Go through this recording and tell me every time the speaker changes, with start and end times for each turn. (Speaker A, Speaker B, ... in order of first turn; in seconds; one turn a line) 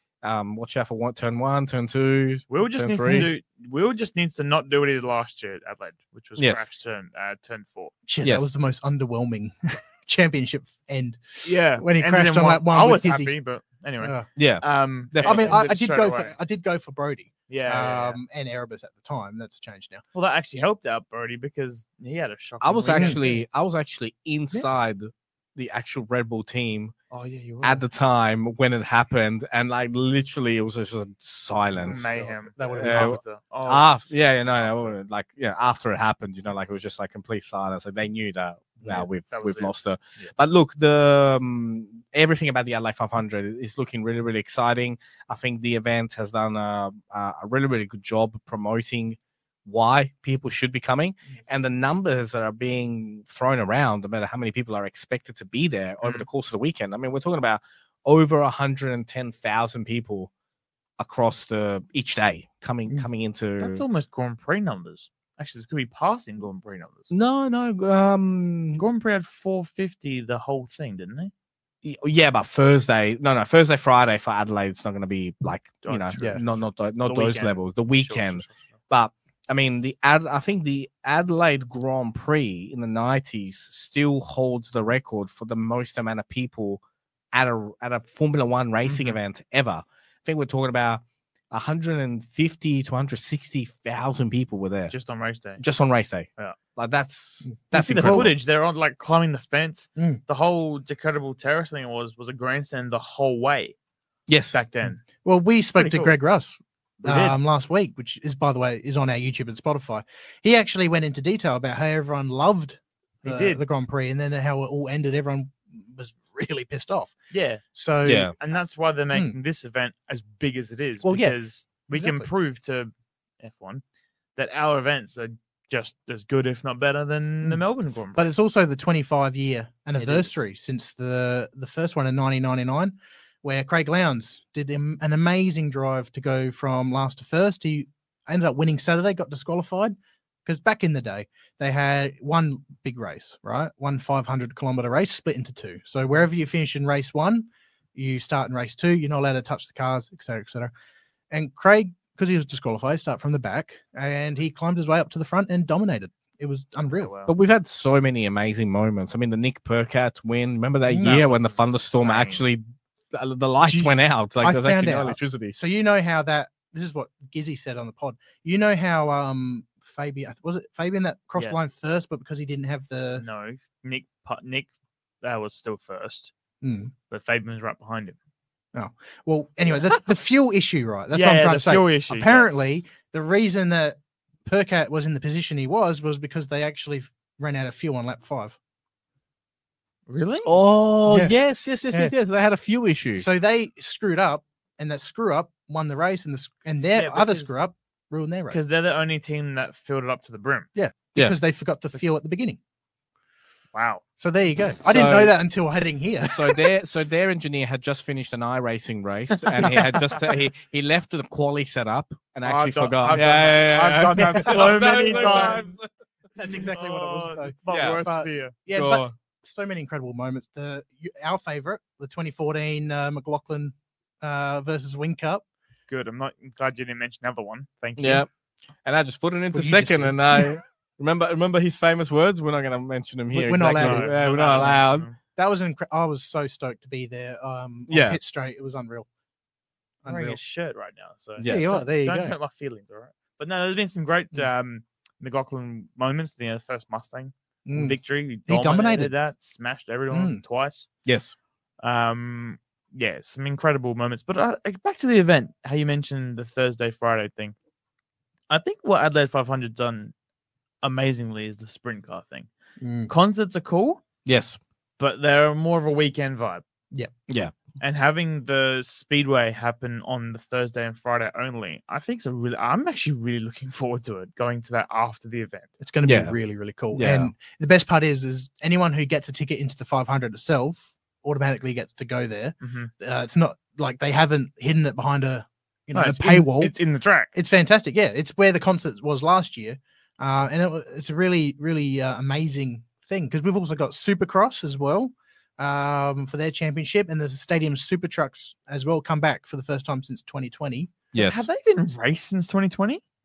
Speaker A: 0.2-3.3
Speaker B: 2.5-7.9
Speaker C: 3.0-3.3
Speaker A: 6.4-6.7
Speaker C: 8.1-13.3
Speaker A: 8.2-8.5
Speaker B: 11.4-16.4
Speaker C: 14.0-14.3
Speaker A: 14.4-15.5
Speaker C: 15.3-20.0
Speaker B: 17.5-18.2
Speaker B: 20.1-23.4
Speaker A: 22.6-26.9
Speaker C: 22.9-23.2
Speaker B: 27.1-27.8
Speaker A: 27.6-32.1
Speaker C: 31.8-33.2
Speaker B: 31.9-35.0
Speaker A: 32.8-60.3
Speaker B: 38.9-40.3
Speaker A: 61.0-63.8
Speaker B: 63.6-67.1
Speaker A: 67.1-68.8
Speaker B: 68.8-71.3
Speaker A: 71.8-94.9
Speaker B: 75.8-78.7
Speaker B: 88.8-89.2
Speaker B: 94.9-95.6
Speaker A: 95.6-98.3
Speaker C: 97.4-98.3
Speaker B: 98.0-103.8
Speaker A: 104.3-104.6
Speaker B: 104.5-105.0
Speaker C: 105.2-117.2
Speaker B: 105.8-106.1
Speaker B: 107.0-107.4
Speaker B: 113.2-113.7
Speaker B: 117.3-117.6
Speaker C: 117.7-118.3
Speaker A: 118.0-118.3
Speaker B: 118.3-123.8
Speaker C: 119.1-119.4
Speaker C: 121.0-122.3
Speaker B: 124.3-128.3
Speaker C: 128.2-139.9
Speaker B: 130.0-130.4
Speaker C: 140.5-150.7
Speaker C: 151.3-157.1
Speaker B: 157.0-157.3
Speaker A: 157.3-165.6
Speaker C: 160.9-161.2
Speaker B: 161.0-162.5
Speaker C: 163.6-173.2
Speaker B: 173.2-174.7
Speaker B: 175.2-176.3
Speaker C: 176.6-176.9
Speaker B: 177.1-178.2
Speaker C: 178.7-188.6
Speaker B: 179.7-180.0
Speaker B: 181.1-182.8
Speaker B: 190.1-190.6
Speaker A: 190.4-193.3
Speaker C: 191.1-191.4
Speaker C: 193.2-198.6
Speaker B: 196.9-197.6
Speaker B: 198.5-200.7
Speaker C: 200.8-202.6
Speaker B: 203.7-204.0
Speaker C: 204.2-206.7
Speaker A: 204.9-205.4
Speaker A: 206.2-215.9
Speaker B: 209.3-210.0
Speaker B: 212.4-215.7
Speaker C: 214.2-215.6
Speaker C: 216.3-225.4
Speaker B: 216.6-218.6
Speaker A: 217.7-218.0
Speaker A: 218.7-219.1
Speaker B: 225.9-228.3
Speaker A: 228.0-228.3
Speaker A: 228.8-235.1
Speaker C: 229.5-230.6
Speaker C: 233.3-234.8
Speaker B: 233.7-235.2
Speaker C: 235.4-239.1
Speaker A: 237.9-238.2
Speaker C: 240.0-240.4
Speaker B: 240.1-250.9
Speaker A: 241.4-241.7
Speaker C: 241.5-242.4
Speaker C: 247.7-249.2
Speaker C: 250.1-250.4
Speaker A: 251.1-251.4
Speaker B: 251.8-257.6
Speaker B: 258.5-260.1
Speaker B: 260.8-262.5
Speaker C: 262.8-263.1
Speaker B: 263.1-264.0
Speaker A: 264.2-264.6
Speaker B: 265.0-266.6
Speaker A: 267.3-267.5
Speaker B: 267.8-275.7
Speaker C: 275.8-286.7
Speaker A: 276.1-276.4
Speaker A: 276.9-277.3
Speaker B: 282.6-282.9
Speaker B: 285.9-287.3
Speaker C: 287.3-301.1
Speaker A: 301.1-301.5
Speaker B: 301.2-303.0